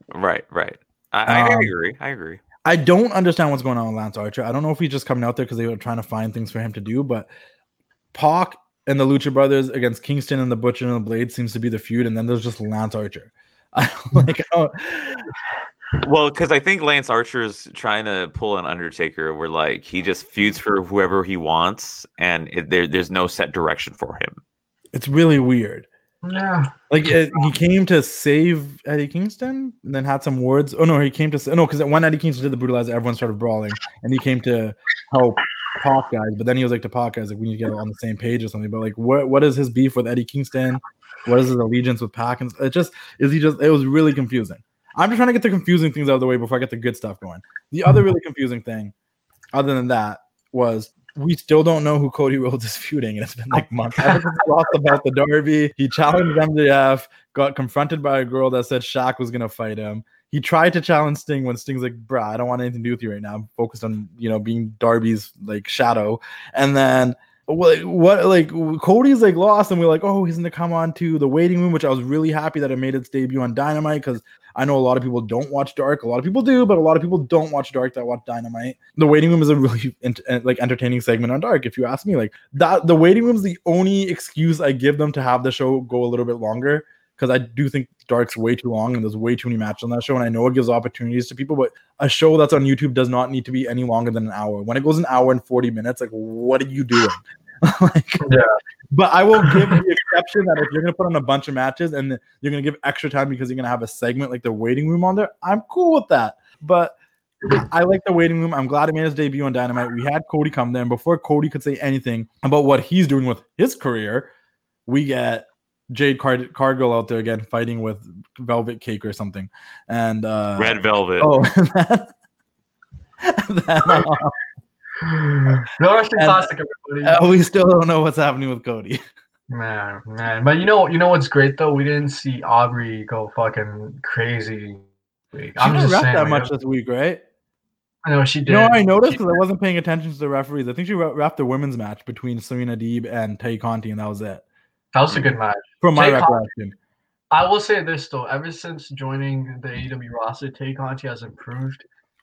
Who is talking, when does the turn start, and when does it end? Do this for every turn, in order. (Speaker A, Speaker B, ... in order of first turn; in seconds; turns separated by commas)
Speaker A: 0.1-2.4, Speaker B: 1.3-1.7, Speaker B: 2.6-7.3, Speaker B: 8.1-15.3, Speaker A: 16.0-24.4, Speaker B: 24.9-25.9, Speaker C: 26.2-26.7, Speaker B: 26.9-48.9, Speaker B: 49.5-98.3, Speaker C: 98.2-98.5, Speaker B: 98.9-107.0, Speaker C: 99.4-99.8, Speaker B: 107.5-114.3, Speaker B: 114.8-122.1, Speaker A: 120.6-121.3, Speaker B: 123.2-124.3, Speaker C: 125.0-127.2, Speaker B: 126.2-126.5, Speaker B: 127.0-129.0, Speaker C: 129.5-136.5, Speaker B: 135.6-137.2, Speaker C: 138.0-139.4, Speaker B: 138.5-144.4, Speaker C: 144.9-146.4, Speaker B: 145.8-146.8, Speaker C: 147.3-151.8